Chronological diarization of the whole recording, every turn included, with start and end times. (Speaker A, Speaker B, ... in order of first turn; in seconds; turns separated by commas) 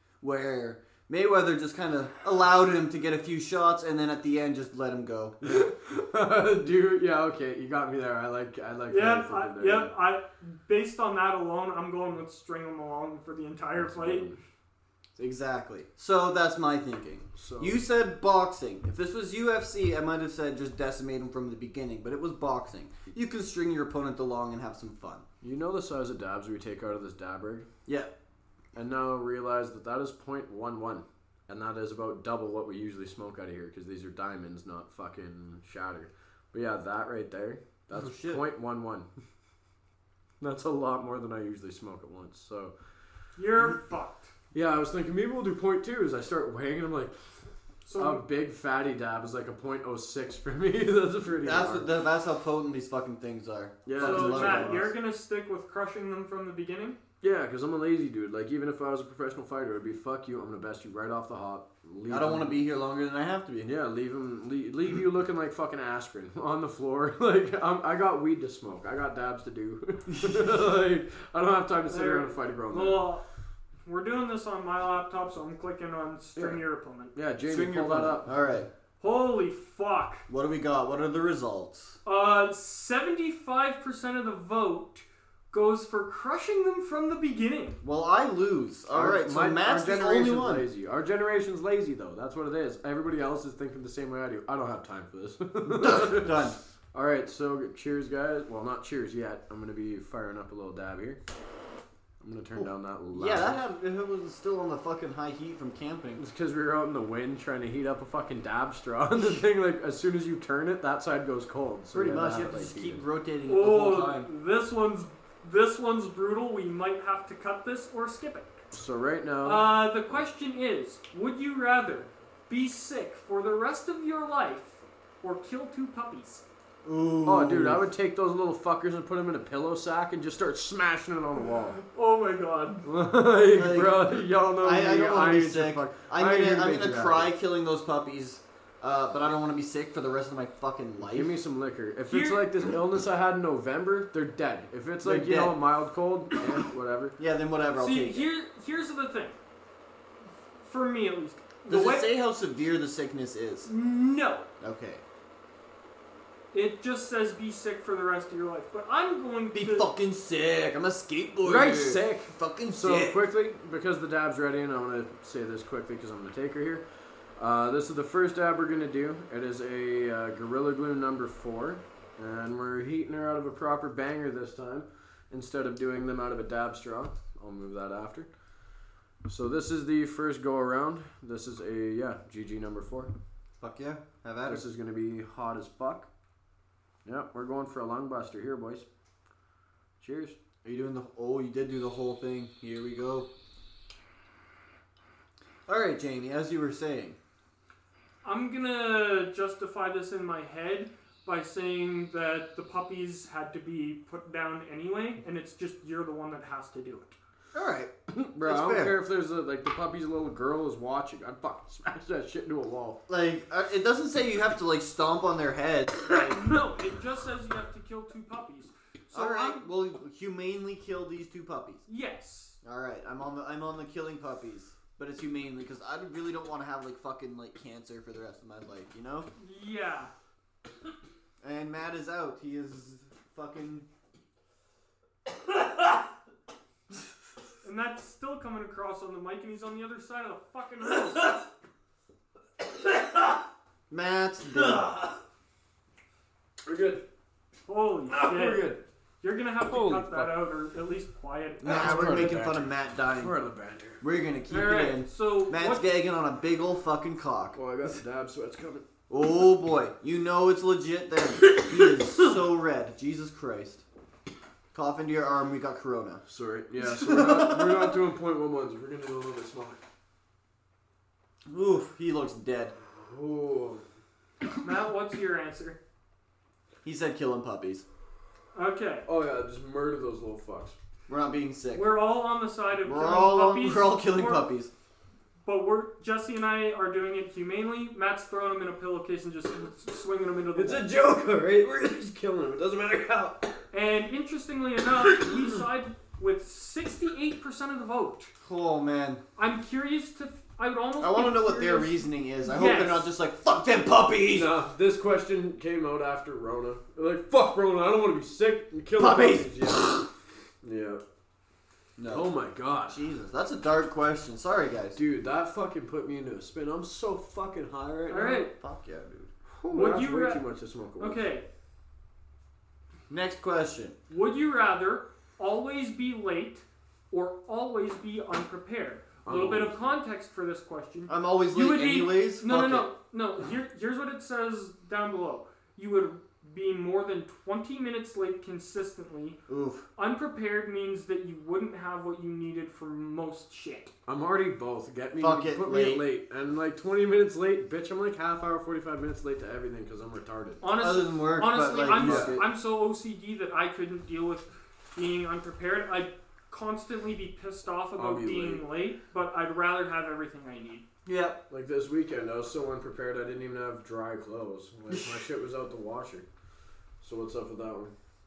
Speaker A: 0.2-5.3, Speaker B: 5.4-9.9, Speaker C: 8.9-14.2, Speaker B: 13.8-14.4, Speaker A: 15.2-25.2, Speaker B: 17.3-17.8, Speaker B: 25.4-27.7, Speaker A: 27.9-28.1, Speaker B: 28.7-39.1, Speaker A: 38.0-38.4, Speaker B: 40.4-42.7, Speaker C: 43.4-44.3, Speaker B: 44.5-47.1, Speaker C: 47.9-48.2, Speaker B: 47.9-51.9, Speaker A: 51.4-54.9, Speaker B: 53.9-54.9, Speaker C: 54.0-57.0, Speaker B: 57.2-62.6, Speaker A: 62.1-63.7, Speaker B: 63.6-73.1, Speaker C: 71.9-73.2, Speaker C: 73.8-77.1, Speaker B: 76.3-76.6, Speaker B: 77.1-78.3, Speaker A: 77.5-78.7, Speaker C: 79.0-80.2, Speaker A: 80.3-82.0, Speaker C: 82.0-87.8, Speaker A: 87.8-90.7, Speaker B: 88.9-101.2, Speaker A: 95.7-96.6, Speaker B: 102.2-103.6, Speaker A: 102.6-106.2, Speaker B: 106.2-113.0, Speaker A: 111.9-114.3, Speaker C: 113.5-118.5, Speaker B: 118.7-120.2, Speaker C: 119.4-126.4, Speaker A: 126.8-127.8, Speaker B: 127.2-131.8, Speaker C: 131.7-132.8, Speaker B: 132.8-137.3, Speaker A: 133.5-141.4, Speaker B: 141.1-147.2, Speaker C: 142.1-142.5, Speaker A: 145.0-145.6, Speaker A: 147.2-148.2, Speaker C: 147.8-149.3, Speaker C: 150.6-152.1, Speaker A: 151.7-153.7, Speaker C: 153.7-154.5, Speaker A: 154.6-155.0, Speaker C: 156.5-159.9, Speaker A: 159.5-163.2, Speaker B: 161.4-166.8, Speaker B: 167.4-178.3, Speaker B: 179.2-183.1, Speaker A: 183.6-184.6, Speaker B: 184.4-186.1, Speaker B: 187.0-188.8, Speaker B: 190.0-190.4, Speaker A: 190.6-193.3, Speaker A: 195.7-197.2, Speaker C: 198.2-207.2, Speaker A: 207.5-207.9, Speaker B: 208.1-213.0, Speaker A: 208.4-208.9, Speaker A: 213.1-216.3, Speaker C: 216.1-219.6, Speaker A: 219.1-221.8, Speaker C: 221.9-222.6, Speaker A: 222.6-229.3, Speaker C: 229.4-230.1, Speaker A: 231.4-233.9, Speaker C: 237.6-241.4, Speaker B: 242.8-243.4, Speaker A: 243.9-244.9, Speaker B: 244.5-245.2, Speaker B: 246.6-247.0, Speaker C: 247.7-252.3, Speaker B: 248.1-248.8, Speaker B: 249.6-250.4, Speaker A: 251.6-253.3, Speaker B: 251.6-254.0, Speaker A: 254.0-257.6, Speaker C: 254.5-255.9, Speaker B: 257.5-258.9, Speaker A: 259.1-263.8, Speaker B: 261.4-262.3, Speaker A: 264.7-266.2, Speaker B: 266.3-269.8, Speaker A: 266.8-268.0, Speaker A: 271.5-272.7, Speaker B: 272.9-273.8, Speaker C: 274.6-275.8, Speaker A: 276.8-277.8, Speaker C: 278.5-279.1, Speaker B: 279.1-280.8, Speaker A: 281.1-281.9, Speaker C: 281.7-284.4, Speaker A: 282.8-284.7, Speaker C: 285.4-290.9, Speaker B: 290.5-293.6, Speaker C: 293.7-298.3, Speaker A: 298.4-299.2, Speaker C: 299.4-303.1, Speaker A: 301.0-304.5, Speaker B: 304.3-310.1, Speaker A: 309.0-310.1, Speaker B: 310.6-311.0, Speaker A: 312.0-312.3, Speaker B: 312.1-313.0, Speaker A: 312.9-315.0, Speaker B: 314.9-318.3, Speaker A: 318.1-319.3, Speaker C: 318.1-318.5, Speaker B: 319.6-321.2, Speaker C: 319.7-320.4, Speaker C: 321.0-321.4, Speaker A: 323.1-323.9, Speaker C: 324.1-339.4, Speaker B: 329.2-329.9, Speaker A: 331.1-332.9, Speaker A: 339.5-339.9, Speaker C: 340.0-343.9, Speaker B: 344.1-350.6, Speaker A: 345.2-346.0, Speaker C: 350.6-360.8, Speaker A: 350.8-352.4, Speaker B: 351.9-352.4, Speaker B: 358.0-358.6, Speaker A: 361.1-361.4, Speaker B: 361.5-366.2, Speaker B: 367.0-367.9